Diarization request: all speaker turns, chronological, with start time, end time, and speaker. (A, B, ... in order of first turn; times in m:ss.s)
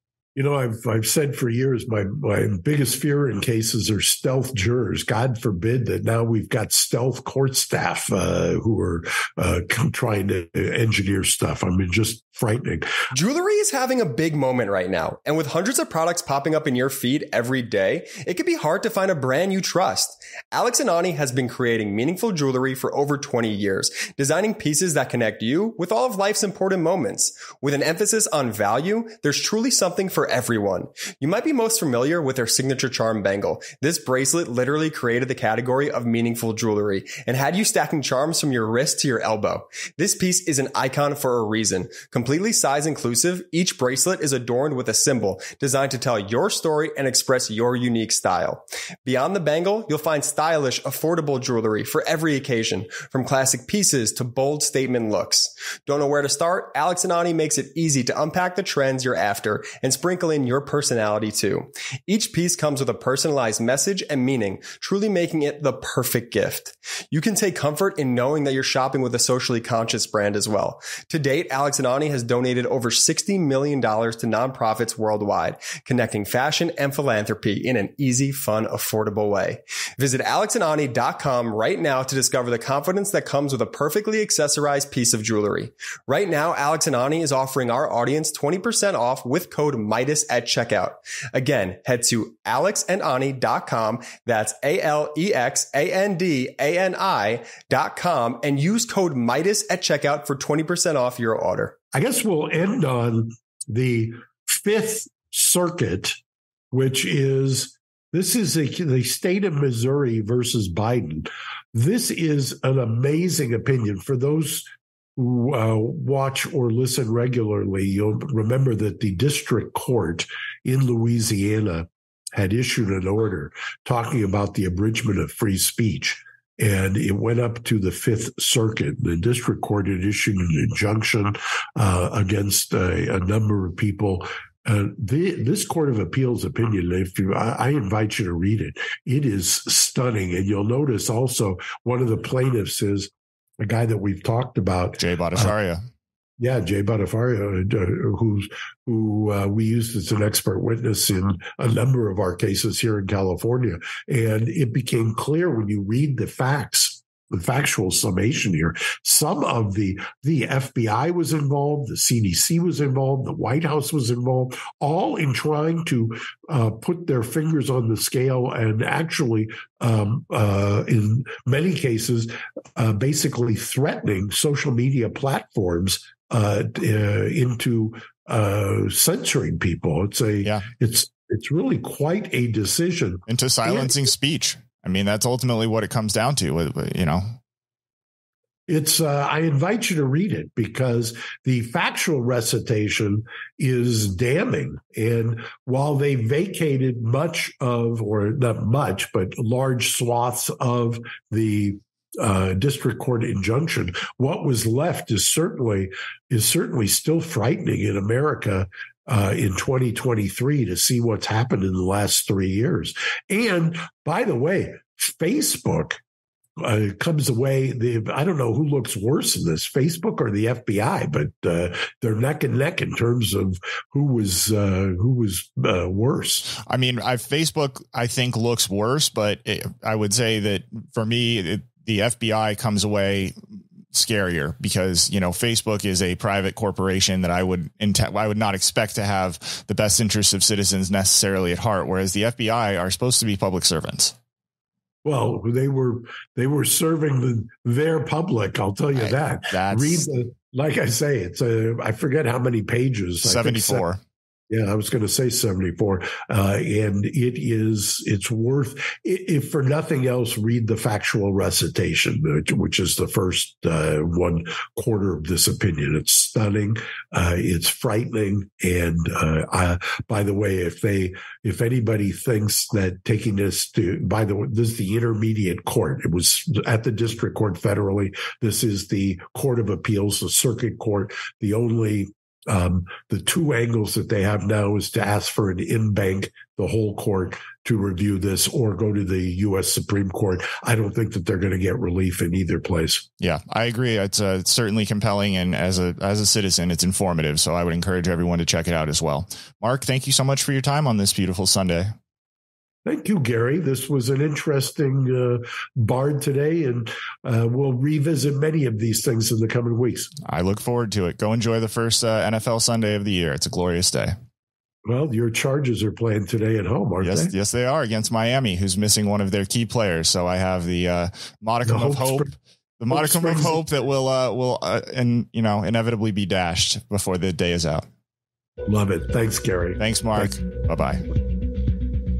0:00.4-0:12.9 A
0:13.1-1:41.8 B
1:41.9-1:46.2 A
1:46.7-2:25.6 A
2:25.0-2:25.8 C
2:26.4-3:03.8 A
3:03.3-3:07.4 C
3:08.7-3:36.0 A
3:36.6-3:46.5 A
3:46.5-3:53.4 C
3:53.9-4:04.2 C
4:05.0-4:13.8 A
4:08.9-4:10.1 C
4:13.2-4:14.0 C
4:14.5-4:53.1 A
4:53.2-5:02.0 C
5:02.8-5:10.1 A
5:10.2-5:14.2 C
5:14.9-5:17.3 A
5:17.0-5:27.9 C
5:21.6-5:22.3 A
5:22.9-5:23.6 A
5:28.7-5:30.4 A
5:29.8-5:31.0 C